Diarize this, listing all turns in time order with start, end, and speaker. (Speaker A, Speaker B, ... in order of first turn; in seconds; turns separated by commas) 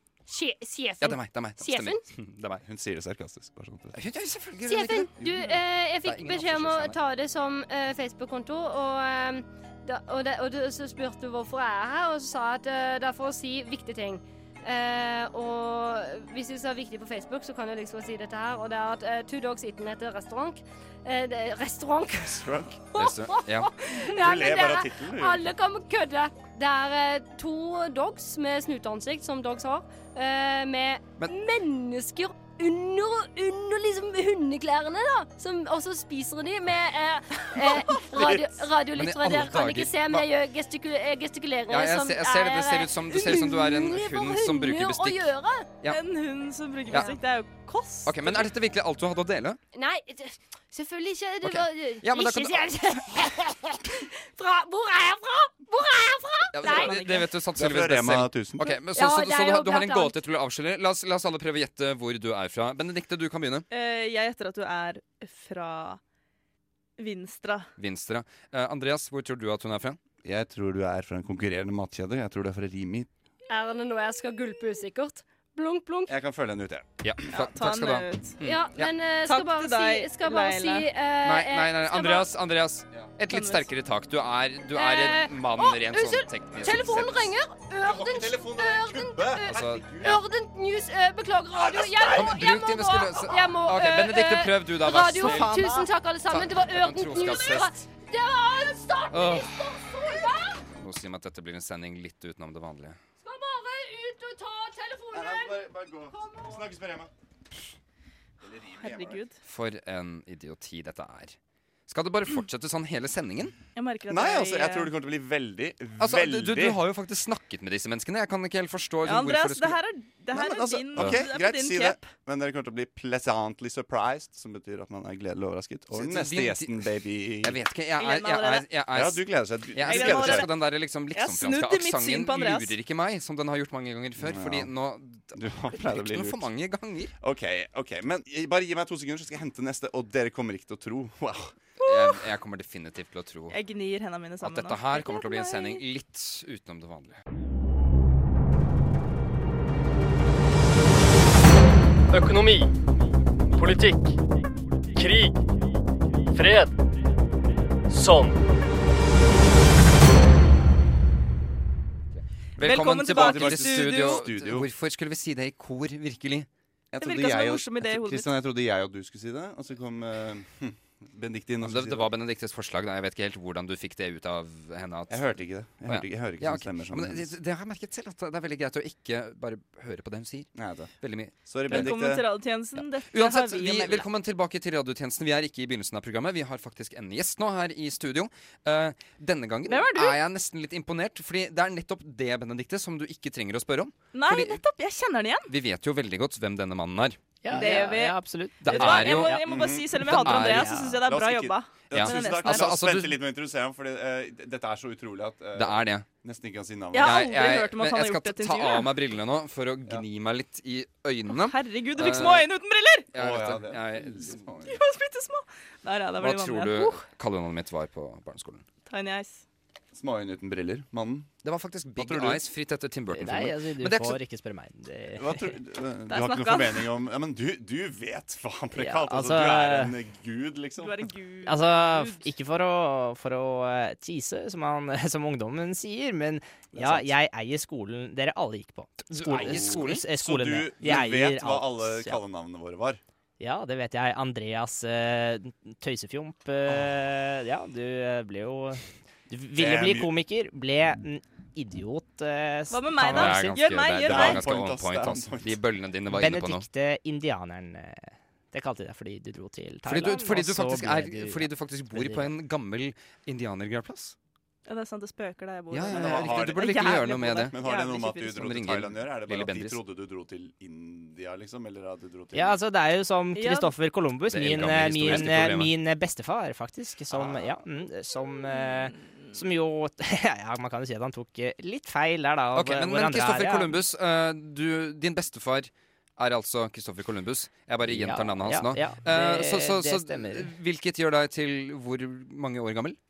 Speaker A: 0.3-2.0, Speaker B: 1.0-2.6, Speaker C: 2.6-4.0, Speaker B: 3.9-7.0, Speaker A: 4.7-22.4, Speaker C: 5.2-5.5, Speaker C: 22.2-22.9, Speaker A: 22.9-45.7, Speaker B: 23.0-23.7, Speaker C: 23.9-25.5, Speaker B: 38.2-40.3, Speaker B: 41.7-46.0, Speaker D: 45.9-48.5, Speaker B: 46.9-47.1, Speaker B: 48.0-49.6, Speaker A: 49.7-56.9, Speaker B: 51.4-52.8, Speaker B: 56.5-63.7, Speaker D: 56.6-57.3, Speaker C: 57.5-58.7, Speaker A: 58.9-60.1, Speaker D: 63.7-66.0, Speaker D: 67.0-67.7, Speaker B: 67.8-70.0, Speaker C: 70.2-73.1, Speaker A: 73.5-76.1, Speaker C: 76.1-76.9, Speaker B: 77.0-78.9, Speaker D: 77.3-78.4, Speaker A: 78.4-82.3, Speaker D: 79.2-80.9, Speaker B: 81.2-87.3, Speaker D: 83.3-83.7, Speaker A: 84.8-100.6, Speaker C: 87.8-90.2, Speaker B: 89.5-89.9, Speaker C: 91.5-92.4, Speaker B: 92.1-97.8, Speaker C: 95.2-95.7, Speaker B: 99.1-99.8, Speaker B: 100.8-103.0, Speaker A: 103.2-105.6, Speaker C: 105.1-107.1, Speaker A: 106.1-106.6, Speaker C: 108.4-109.2, Speaker D: 108.8-109.4, Speaker B: 109.4-111.4, Speaker B: 111.9-113.5, Speaker D: 113.8-114.9, Speaker C: 114.1-116.8, Speaker B: 116.0-119.8, Speaker D: 119.0-122.1, Speaker C: 120.3-127.6, Speaker B: 125.9-126.9, Speaker B: 127.4-137.1, Speaker D: 128.0-128.7, Speaker C: 128.9-130.5, Speaker D: 129.8-132.8, Speaker C: 134.2-134.7, Speaker C: 135.3-136.5, Speaker C: 137.2-141.6, Speaker B: 141.8-143.6, Speaker D: 141.8-142.2, Speaker D: 143.5-145.8, Speaker B: 144.4-147.2, Speaker E: 152.1-152.7, Speaker E: 153.6-154.2, Speaker E: 154.9-155.4, Speaker E: 156.3-156.8, Speaker E: 157.9-158.4, Speaker B: 162.2-166.5, Speaker D: 162.6-164.2, Speaker C: 163.1-164.7, Speaker C: 166.9-172.1, Speaker D: 167.0-168.3, Speaker B: 171.6-175.3, Speaker C: 175.1-177.3, Speaker B: 175.9-180.5, Speaker C: 180.6-180.9, Speaker B: 181.0-182.0, Speaker C: 181.4-182.2, Speaker D: 181.7-184.1, Speaker B: 182.8-194.6, Speaker D: 189.7-190.2, Speaker D: 194.1-195.5, Speaker B: 195.5-197.2, Speaker F: 197.4-199.3, Speaker D: 197.5-202.8, Speaker B: 198.6-200.9, Speaker C: 199.3-200.1, Speaker F: 200.3-201.0, Speaker C: 201.0-207.2, Speaker B: 201.9-203.2, Speaker B: 205.5-206.1, Speaker D: 206.9-208.9, Speaker B: 207.0-212.5, Speaker D: 211.3-213.1, Speaker B: 213.1-214.4, Speaker C: 213.1-214.8, Speaker D: 214.6-217.0, Speaker B: 216.2-218.6, Speaker D: 218.9-219.4, Speaker C: 219.9-221.3, Speaker B: 221.4-224.2, Speaker C: 222.0-222.4, Speaker F: 223.1-225.5, Speaker C: 225.2-231.1, Speaker D: 226.1-226.9, Speaker F: 228.8-230.0, Speaker D: 230.8-232.3, Speaker F: 231.4-242.2, Speaker C: 236.7-237.1, Speaker B: 239.1-240.0, Speaker C: 239.3-243.0, Speaker F: 243.4-253.6, Speaker C: 249.6-250.1, Speaker D: 252.7-254.4, Speaker B: 253.0-256.6, Speaker C: 254.0-255.6, Speaker F: 256.1-262.3, Speaker B: 259.9-264.1, Speaker D: 264.6-268.4, Speaker B: 265.7-267.5, Speaker C: 265.9-266.9, Speaker C: 267.5-272.6, Speaker B: 268.3-269.8, Speaker F: 272.3-283.7, Speaker D: 273.3-273.7, Speaker B: 274.3-275.7, Speaker D: 278.6-278.9, Speaker B: 282.5-293.0, Speaker F: 287.9-290.5